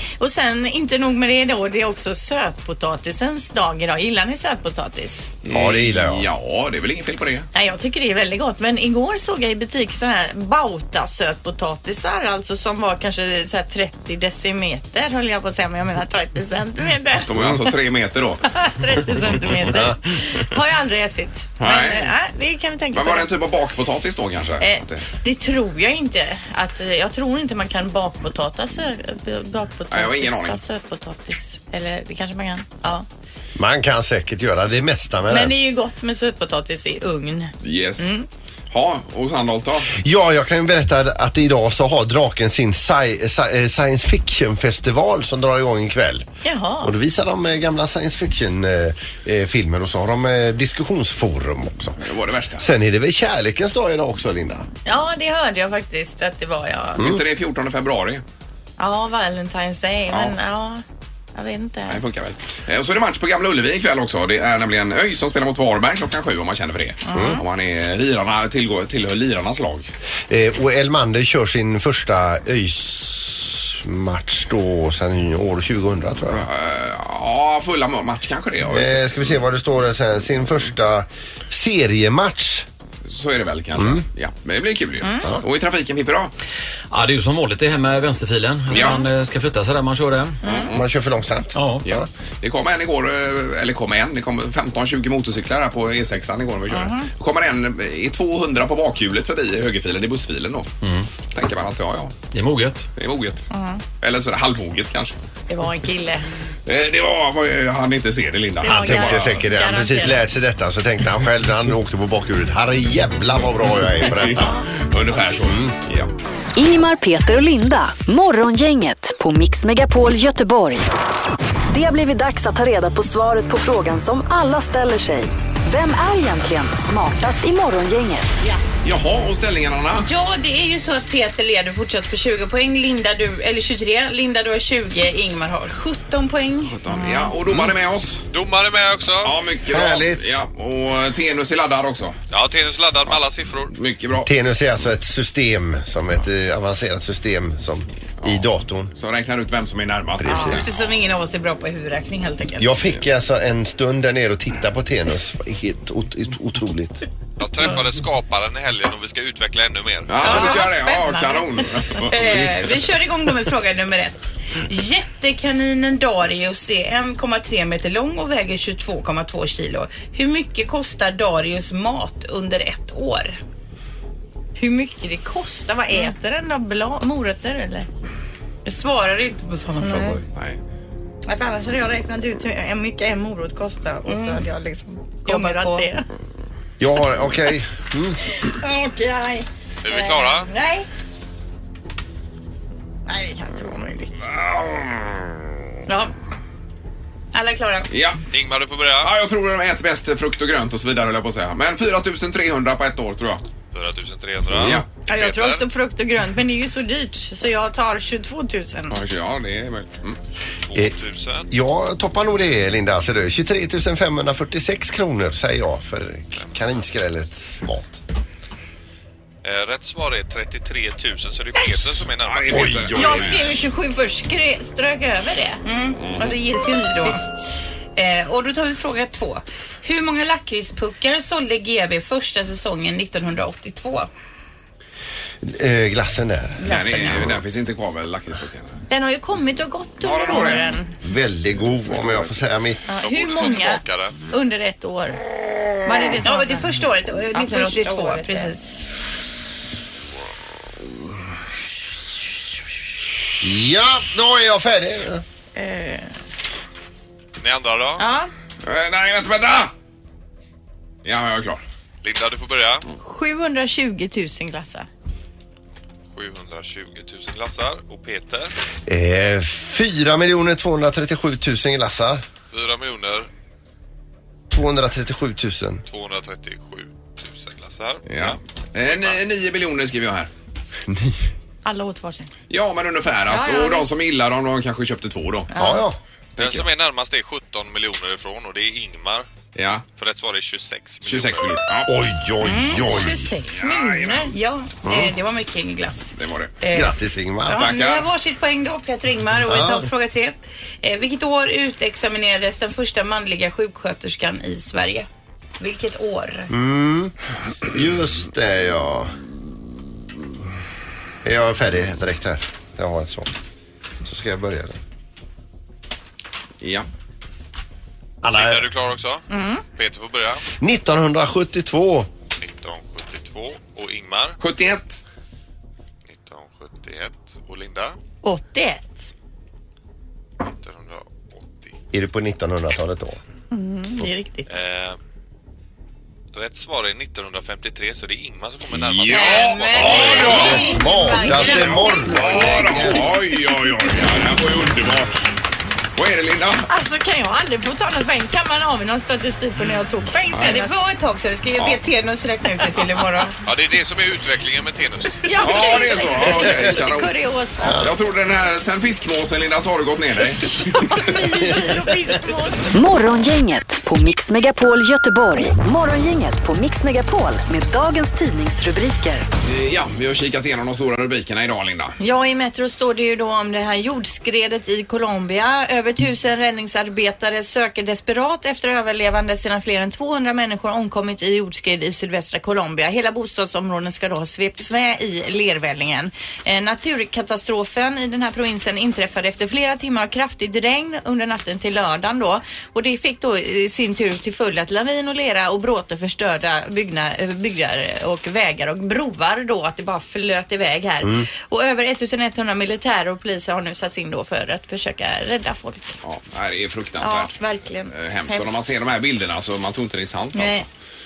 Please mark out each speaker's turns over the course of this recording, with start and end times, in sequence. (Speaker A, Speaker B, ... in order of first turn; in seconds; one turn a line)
Speaker A: 0.2-5.3
Speaker B: 5.4-7.5
Speaker C: 5.5-6.3
Speaker A: 7.5-17.5
Speaker B: 17.2-19.9
Speaker A: 18.5-23.3
Speaker C: 19.7-20.0
Speaker B: 21.6-22.1
Speaker B: 22.9-25.1
Speaker A: 24.6-33.1
Speaker B: 29.9-30.6
Speaker C: 33.6-35.5
Speaker A: 35.3-38.3
Speaker B: 37.6-38.1
Speaker B: 38.7-39.9
Speaker C: 39.9-46.3
Speaker A: 46.4-46.9
Speaker C: 46.8-52.0
Speaker B: 52.0-52.7
Speaker C: 52.6-54.7
Speaker A: 54.9-57.1
Speaker C: 57.0-57.2
Speaker B: 57.0-58.2
Speaker A: 58.8-60.8
Speaker A: 61.4-62.0
Speaker B: 61.9-69.9
Speaker A: 67.1-67.4
Speaker C: 67.1-67.4
Speaker C: 70.3-76.5
Speaker B: 76.3-79.2
Speaker C: 78.7-82.7
Speaker B: 83.1-86.3
Speaker C: 83.8-84.0
Speaker A: 85.0-85.3
Speaker D: 86.9-90.4
Speaker B: 88.7-89.1
Speaker B: 90.4-90.8
Speaker A: 90.5-90.7
Speaker C: 90.7-92.1
Speaker D: 91.5-91.8
Speaker B: 91.8-100.7
Speaker A: 96.7-97.1
Speaker D: 100.8-101.1
Speaker B: 101.2-102.2
Speaker D: 102.3-102.9
Speaker B: 103.0-103.5
Speaker A: 103.5-103.8
Speaker B: 104.0-105.1
Speaker A: 105.5-106.3
Speaker B: 106.7-109.4
Speaker A: 108.6-110.2
Speaker C: 108.6-114.6
Speaker B: 114.0-116.1
Speaker C: 115.4-115.8
Speaker E: 116.5-120.9
Speaker E: 121.7-128.4
Speaker B: 128.8-130.1
Speaker F: 130.0-136.8
Speaker B: 136.7-138.2
Speaker A: 136.9-137.3
Speaker G: 138.3-139.3
Speaker B: 139.2-142.2
Speaker C: 139.7-140.4
Speaker G: 142.3-143.7
Speaker B: 143.7-144.3
Speaker C: 144.2-148.9
Speaker B: 148.2-150.7
Speaker C: 150.2-150.7
Speaker F: 150.3-152.8
Speaker C: 152.6-157.1
Speaker G: 157.4-160.4
Speaker B: 160.1-162.8
Speaker A: 160.2-161.0
Speaker F: 160.2-161.4
Speaker F: 162.0-173.4
Speaker A: 174.6-177.9
Speaker F: 178.7-180.2
Speaker A: 179.8-180.2
Speaker B: 180.3-180.6
Speaker A: 181.3-186.1
Speaker F: 184.1-184.4
Speaker F: 185.2-185.9
Speaker C: 186.8-188.2
Speaker A: 188.3-190.9
Speaker G: 189.8-190.5
Speaker A: 193.1-194.2
Speaker B: 194.2-195.4
Speaker A: 195.9-196.1
Speaker F: 197.3-197.9
Speaker B: 197.9-198.2
Speaker G: 198.3-199.1
Speaker B: 199.0-203.4
Speaker G: 203.7-205.7
Speaker B: 204.5-204.9
Speaker A: 205.1-209.0
Speaker B: 208.9-210.2
Speaker G: 210.7-211.5
Speaker C: 211.5-218.0
Speaker G: 219.4-223.0
Speaker B: 222.2-223.6
Speaker C: 222.5-223.3
Speaker A: 222.9-225.6
Speaker F: 225.7-227.3
Speaker B: 226.0-226.4
Speaker F: 228.0-234.1
Speaker C: 235.4-237.3
Speaker F: 236.6-237.3
Speaker B: 236.6-238.8
Speaker A: 238.9-240.9
Speaker B: 240.0-240.8
Speaker C: 241.0-242.8
Speaker A: 242.9-245.2
Speaker G: 243.0-244.2
Speaker A: 245.8-248.8
Speaker F: 246.2-248.6
Speaker C: 253.4-255.2
Speaker A: 255.6-256.1
Speaker G: 257.4-258.1
Speaker A: 258.0-258.3
Speaker B: 258.6-259.7
Speaker B: 261.0-261.6
Speaker G: 262.0-262.9
Speaker A: 263.0-264.9
Speaker G: 266.1-268.5
Speaker C: 268.9-272.2
Speaker G: 272.5-273.3
Speaker C: 274.5-275.8
Speaker G: 275.9-278.4
Speaker B: 278.1-280.3
Speaker G: 278.9-279.2
Speaker C: 280.9-281.2
Speaker A: 281.6-282.3
Speaker B: 282.5-285.5
Speaker A: 283.3-283.9
Speaker A: 285.5-285.9
Speaker C: 285.5-286.0
Speaker B: 286.4-286.7
Speaker G: 286.4-289.3
Speaker B: 289.6-289.9
Speaker G: 290.0-291.6
Speaker B: 291.1-294.3
Speaker C: 291.9-293.3
Speaker A: 292.5-294.3
Speaker F: 294.3-305.1
Speaker C: 294.9-295.1
Speaker B: 296.1-296.6
Speaker C: 296.7-297.7
Speaker B: 297.5-298.1
Speaker C: 299.5-299.9
Speaker F: 305.6-306.5
Speaker C: 306.5-307.1
Speaker C: 307.7-309.2
Speaker C: 311.2-313.3
Speaker C: 314.0-314.8
Speaker B: 316.6-316.9
Speaker C: 318.2-318.7
Speaker G: 318.3-320.4
Speaker A: 319.3-319.6
Speaker C: 320.6-322.1
Speaker G: 322.4-324.4
Speaker B: 324.4-325.0
Speaker G: 326.1-328.0
Speaker A: 328.2-329.1
Speaker G: 330.4-331.7
Speaker C: 331.9-333.2
Speaker A: 333.5-334.5
Speaker G: 334.5-335.0
Speaker G: 336.3-340.4
Speaker B: 338.7-345.2
Speaker F: 339.1-342.9
Speaker C: 340.3-343.1
Speaker B: 346.0-346.7
Speaker A: 346.7-350.8
Speaker B: 350.3-350.6
Speaker F: 350.4-353.4
Speaker G: 353.4-355.2
Speaker A: 355.2-357.8
Speaker B: 355.4-357.1
Speaker C: 357.6-357.9
Speaker B: 357.8-361.2
Speaker A: 360.8-362.7
Speaker E: 362.7-369.3
Speaker B: 369.4-372.0
Speaker A: 372.0-406.0
Speaker C: 401.0-401.3
Speaker B: 406.0-407.4
Speaker A: 407.0-408.5
Speaker B: 407.9-410.6
Speaker A: 410.4-410.7